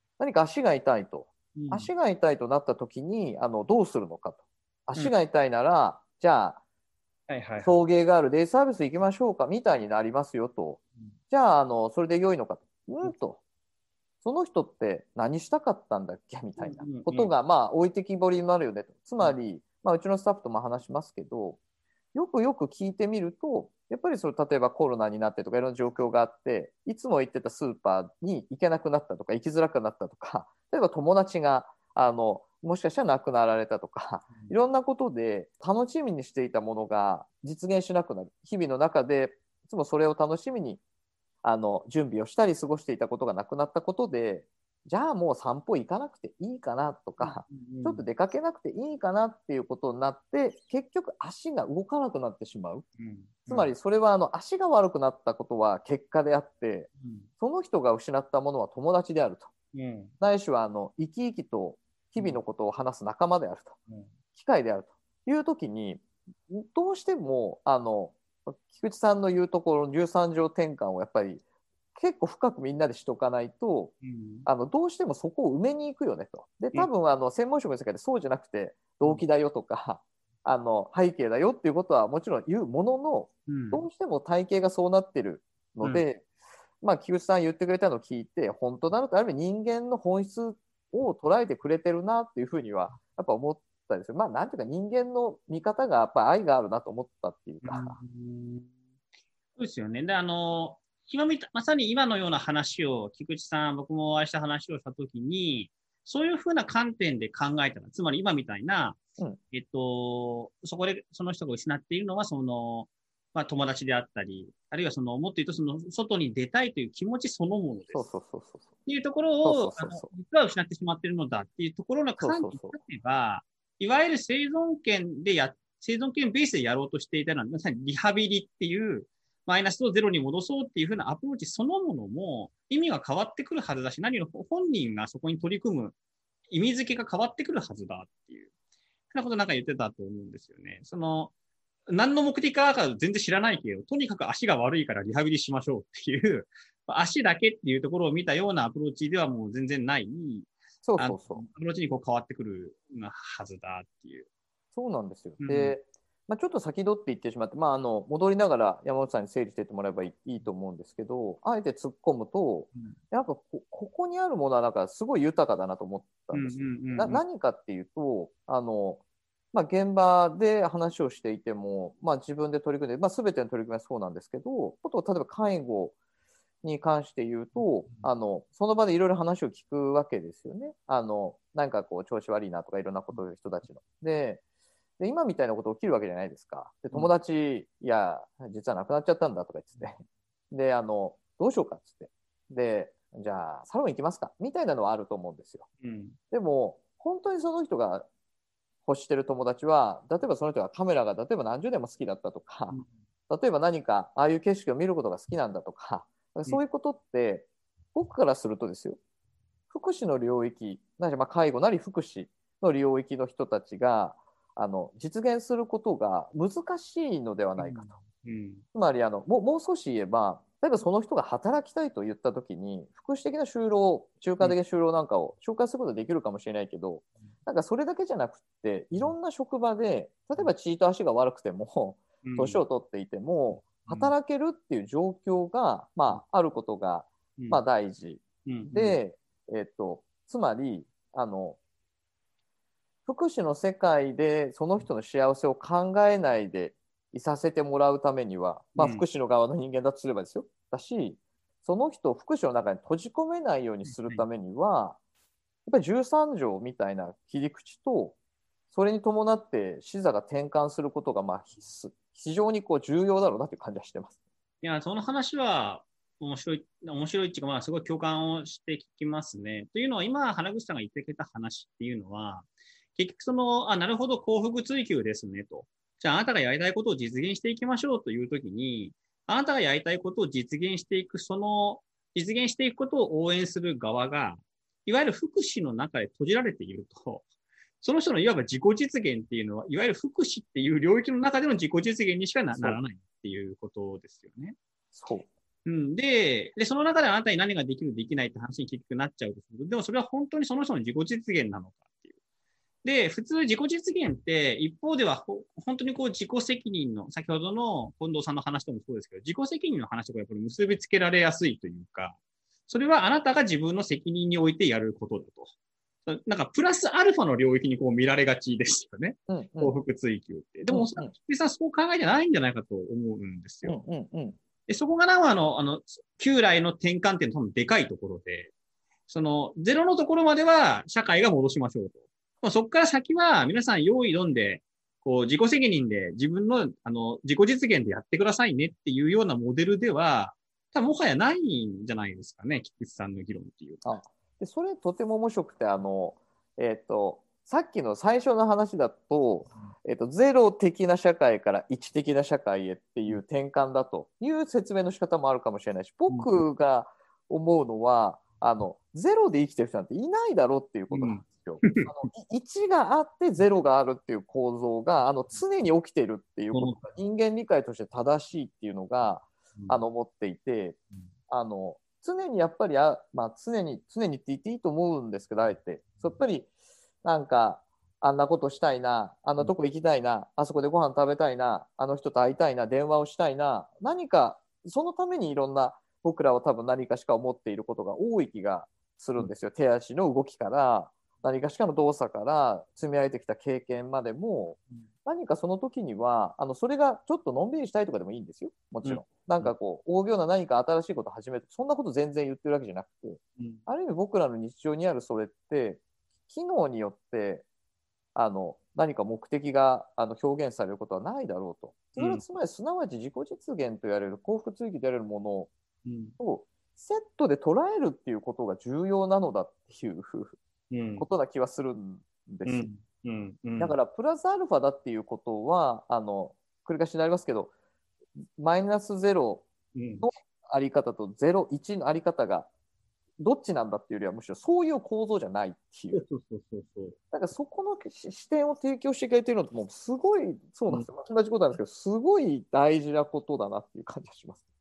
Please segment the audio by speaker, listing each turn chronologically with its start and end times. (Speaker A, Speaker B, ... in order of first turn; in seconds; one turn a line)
Speaker A: 0.2-6.6
Speaker B: 1.6-1.9
Speaker B: 7.3-7.8
Speaker A: 7.6-13.4
Speaker A: 14.2-21.6
Speaker B: 16.6-17.3
Speaker A: 22.1-40.8
Speaker A: 41.4-52.9
Speaker B: 47.2-48.1
Speaker B: 53.0-53.7
Speaker A: 53.5-59.5
Speaker B: 57.0-57.3
Speaker B: 59.7-60.1
Speaker A: 60.2-63.8
Speaker B: 63.9-64.1
Speaker A: 64.4-71.4
Speaker A: 72.0-73.9
Speaker B: 74.0-74.5
Speaker A: 74.5-86.2
Speaker B: 83.5-83.9
Speaker A: 86.8-98.0
Speaker B: 97.6-98.7
Speaker B: 99.6-109.0
Speaker B: 109.5-118.0
Speaker A: 117.9-118.7
Speaker B: 118.9-135.9
Speaker A: 119.4-120.1
Speaker A: 122.2-122.8
Speaker B: 136.5-138.5
Speaker B: 139.1-141.3
Speaker B: 141.9-154.3
Speaker A: 150.8-151.4
Speaker A: 154.7-169.0
Speaker B: 155.4-155.8
Speaker B: 166.3-167.2
Speaker A: 169.5-176.0
Speaker A: 176.6-184.4
Speaker A: 185.0-190.0
Speaker A: 190.5-195.7
Speaker B: 195.8-196.2
Speaker A: 196.3-198.1
Speaker A: 198.8-202.8
Speaker A: 203.3-209.0
Speaker A: 209.7-218.0
Speaker B: 217.6-218.6
Speaker A: 218.7-241.6
Speaker B: 232.2-232.6
Speaker B: 233.6-234.1
Speaker B: 237.4-237.6
Speaker B: 238.5-239.0
Speaker A: 243.1-255.0
Speaker B: 248.8-249.0
Speaker B: 253.8-254.2
Speaker A: 255.7-258.2
Speaker A: 258.7-264.2
Speaker B: 264.6-287.3
Speaker B: 287.8-294.6
Speaker A: 294.9-295.3
Speaker B: 295.7-302.1
Speaker B: 302.8-312.2
Speaker B: 312.7-315.5
Speaker B: 316.1-323.8
Speaker A: 319.3-319.8
Speaker A: 320.7-321.1
Speaker A: 323.6-324.4
Speaker B: 324.7-328.5
Speaker B: 329.1-343.8
Speaker A: 343.8-370.8
Speaker B: 356.1-356.4
Speaker B: 360.9-361.9
Speaker B: 366.5-366.8
Speaker A: 371.3-376.5
Speaker A: 377.0-407.4
Speaker B: 398.8-399.5
Speaker A: 408.1-415.5
Speaker B: 412.0-412.2
Speaker B: 415.9-416.2
Speaker A: 416.2-420.4
Speaker B: 420.7-421.1
Speaker A: 421.0-422.7
Speaker B: 422.4-423.8
Speaker A: 423.6-427.5
Speaker A: 428.4-429.5
Speaker B: 429.8-430.1
Speaker A: 430.0-432.5
Speaker A: 433.2-436.0
Speaker B: 435.9-437.0
Speaker A: 437.1-444.4